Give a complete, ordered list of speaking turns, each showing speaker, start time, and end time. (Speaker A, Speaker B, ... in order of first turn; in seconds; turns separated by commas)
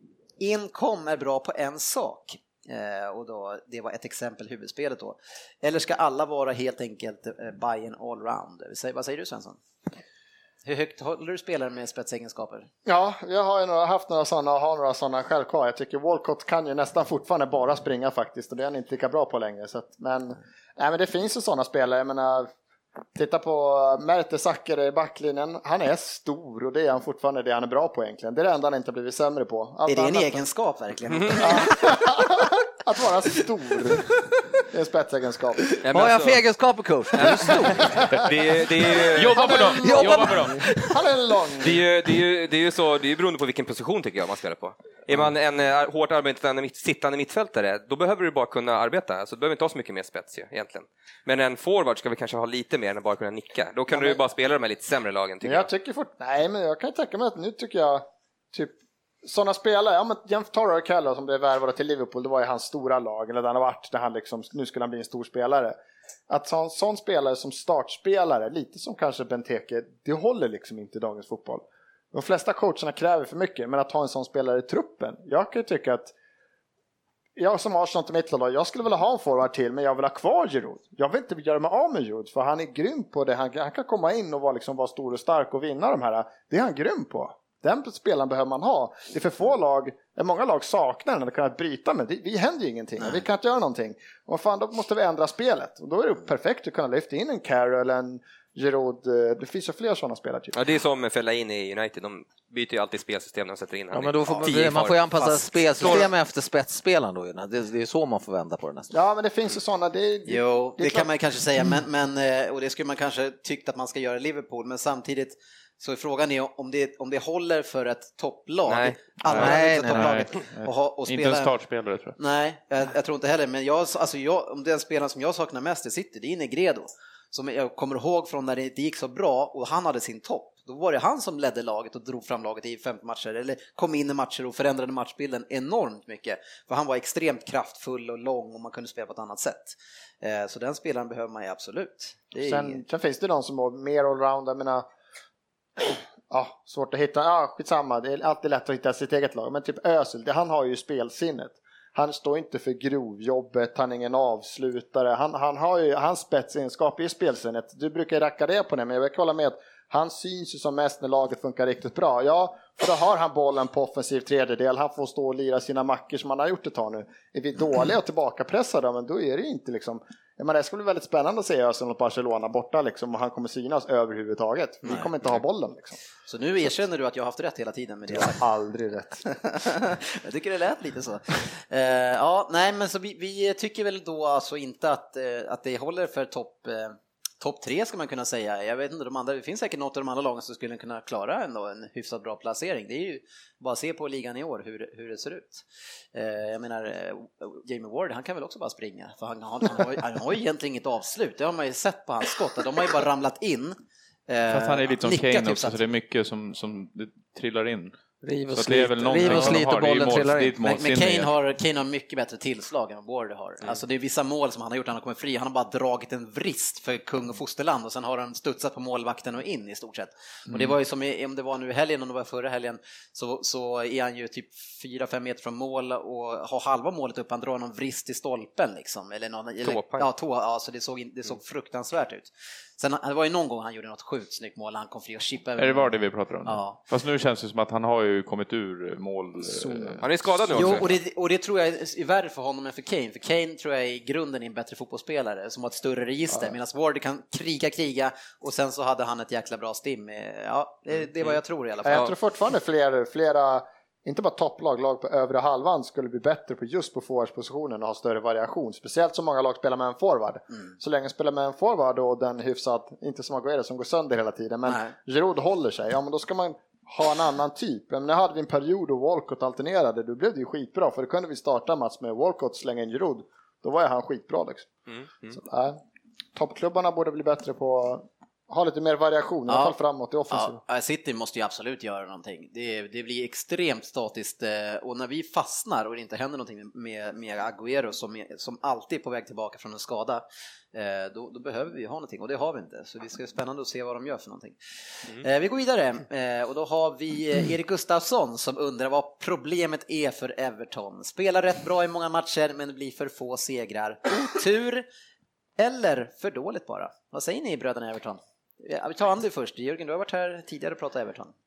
Speaker A: 0.4-9.6, Speaker A: 10.7-12.7, Speaker B: 12.8-22.5, Speaker B: 23.1-30.4, Speaker A: 29.9-32.0, Speaker C: 31.2-31.6, Speaker B: 31.4-35.6, Speaker C: 35.8-36.4, Speaker D: 35.9-38.1, Speaker C: 37.1-39.5, Speaker E: 38.0-38.3, Speaker E: 39.1-40.6, Speaker B: 39.4-41.9, Speaker D: 39.8-40.6, Speaker C: 41.6-55.7, Speaker B: 53.9-54.2, Speaker B: 55.4-65.8, Speaker B: 66.3-76.1, Speaker B: 77.4-100.6, Speaker C: 100.5-106.1, Speaker D: 103.9-108.9, Speaker B: 108.9-111.1, Speaker A: 110.3-121.5, Speaker C: 118.7-119.0, Speaker E: 119.2-122.2, Speaker D: 119.3-120.2, Speaker A: 122.2-142.8, Speaker B: 142.4-144.9, Speaker B: 145.8-176.0, Speaker A: 174.8-175.1, Speaker A: 176.3-178.4, Speaker B: 178.1-179.2, Speaker A: 179.2-203.8, Speaker A: 204.3-205.8, Speaker E: 204.5-208.0, Speaker D: 208.2-210.6, Speaker E: 208.5-211.3, Speaker A: 209.2-209.6, Speaker A: 210.6-235.9, Speaker C: 229.6-230.1, Speaker E: 235.6-240.9, Speaker A: 236.4-236.8, Speaker B: 239.5-240.0, Speaker C: 240.0-240.9, Speaker A: 240.5-252.1, Speaker B: 251.8-274.7, Speaker A: 264.7-264.9, Speaker C: 274.9-275.4, Speaker B: 275.3-275.8, Speaker B: 276.4-280.6, Speaker A: 279.5-279.8, Speaker A: 280.3-304.9, Speaker A: 305.6-311.3